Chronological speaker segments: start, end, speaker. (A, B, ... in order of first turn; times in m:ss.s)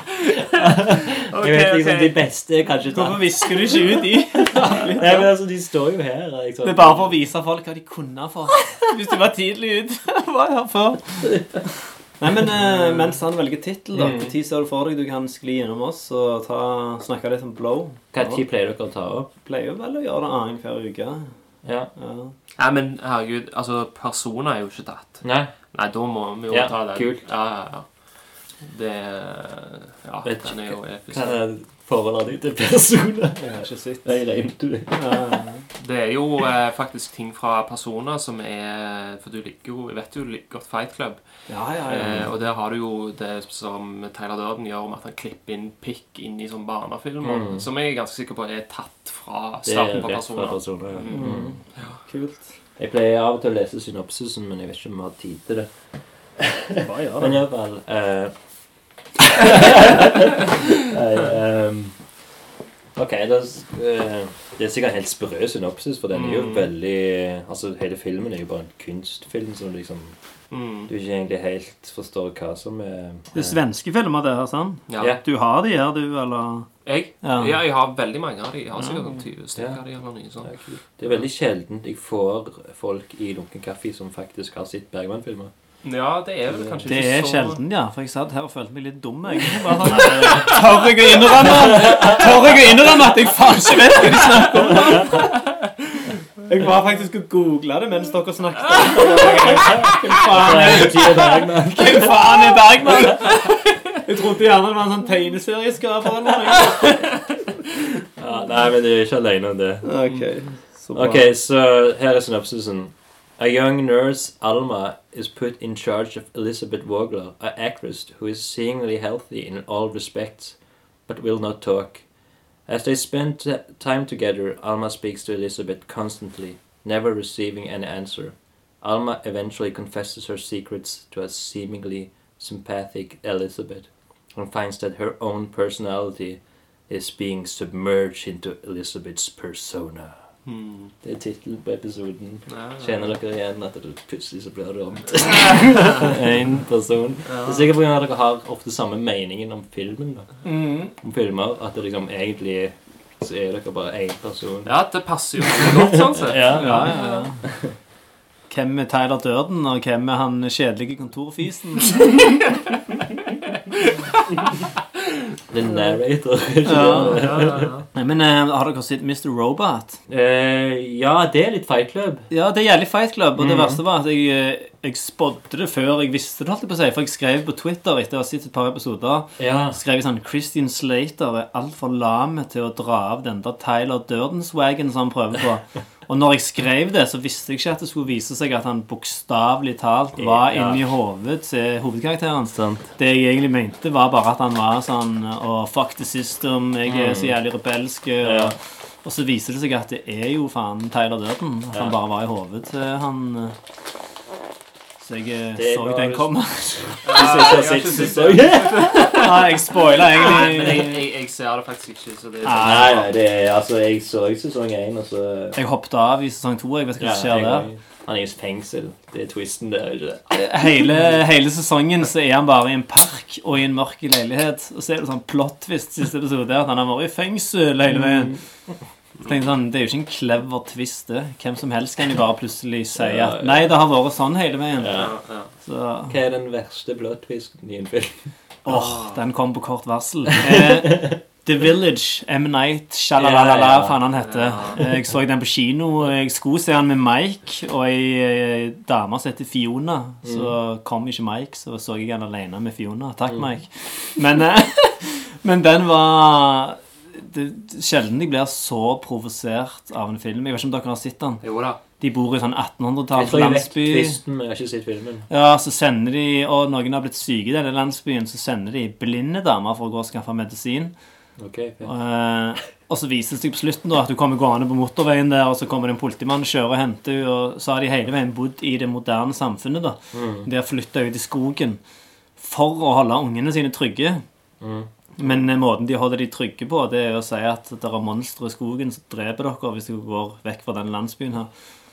0:00.5-0:03.8 A
0:01.3-0:02.2 B
0:02.9-0:05.3 C
0:04.4-0:07.2 A
0:06.6-0:18.4 C
0:11.2-0:11.6 A
0:12.4-0:12.9 A
0:14.0-0:14.3 A
0:18.1-0:19.3 A
0:19.4-0:21.4 C
0:21.6-0:21.9 A
0:22.0-0:22.3 C
0:22.6-0:31.4 B
0:25.2-0:25.6 A
0:26.5-0:27.3 A
0:30.2-0:35.2 A
0:33.4-0:34.3 C
0:34.9-0:35.7 C
0:35.8-0:52.0 B
0:41.5-0:42.3 C
0:47.2-0:47.7 A
0:49.6-0:51.6 A
0:51.1-0:52.5 C
0:52.8-0:58.4 A
0:56.8-0:57.4 C
0:59.2-1:02.1 A
1:03.0-1:10.2 A
1:06.1-1:06.7 B
1:10.5-1:10.9 B
1:10.9-1:13.6 A
1:13.3-1:17.6 C
1:14.9-1:15.2 B
1:16.8-1:21.2 B
1:18.8-1:19.2 C
1:19.6-1:19.8 A
1:20.4-1:25.5 A
1:25.8-1:27.6 B
1:26.5-1:26.8 A
1:26.9-1:47.3 C
1:30.3-1:31.0 B
1:31.4-1:32.3 A
1:38.8-1:39.7 B
1:39.4-1:42.3 A
1:48.2-1:50.0 A
1:49.8-1:51.3 C
1:50.9-2:02.1 A
2:02.6-2:20.3 A
2:20.4-2:20.9 B
2:21.0-2:34.7 A
2:22.5-2:23.1 B
2:27.3-2:27.7 B
2:30.4-2:30.9 C
2:34.7-2:37.3 B
2:35.6-2:37.7 A
2:36.5-2:37.5 C
2:38.5-2:42.2 C
2:45.5-2:47.8 A
2:46.6-2:47.3 C
2:47.2-2:47.8 B
2:47.9-2:50.0 C
2:50.1-2:52.3 A
2:52.3-3:23.6 C
2:53.4-2:53.8 A
2:59.4-2:59.8 A
3:10.2-3:10.9 A
3:12.5-3:12.9 A
3:16.9-3:17.4 A
3:18.2-3:18.6 A
3:21.7-3:22.0 A
3:25.0-3:27.4 C
3:25.6-3:29.1 A
3:27.0-3:33.1 B
3:28.8-3:31.0 C
3:32.4-3:33.0 C
3:32.6-3:35.6 A
3:35.6-3:37.7 C
3:37.0-3:41.2 A
3:40.3-3:48.4 C
3:47.9-3:48.4 A
3:49.2-3:56.2 C
3:53.0-3:53.6 A
3:54.8-3:55.2 A
3:55.0-3:55.5 B
3:56.1-3:58.3 A
3:58.6-4:21.4 C
3:58.7-3:59.2 B
4:00.4-4:01.2 A
4:03.2-4:04.0 A
4:04.2-4:04.8 B
4:10.2-4:10.6 A
4:21.4-4:21.8 B
4:22.0-4:24.2 C
4:23.1-4:25.3 A
4:25.3-4:31.0 C
4:31.4-4:31.9 A
4:31.9-4:41.8 C
4:40.1-4:40.5 A
4:42.4-4:44.2 C
4:44.6-4:44.9 A
4:45.2-4:51.5 C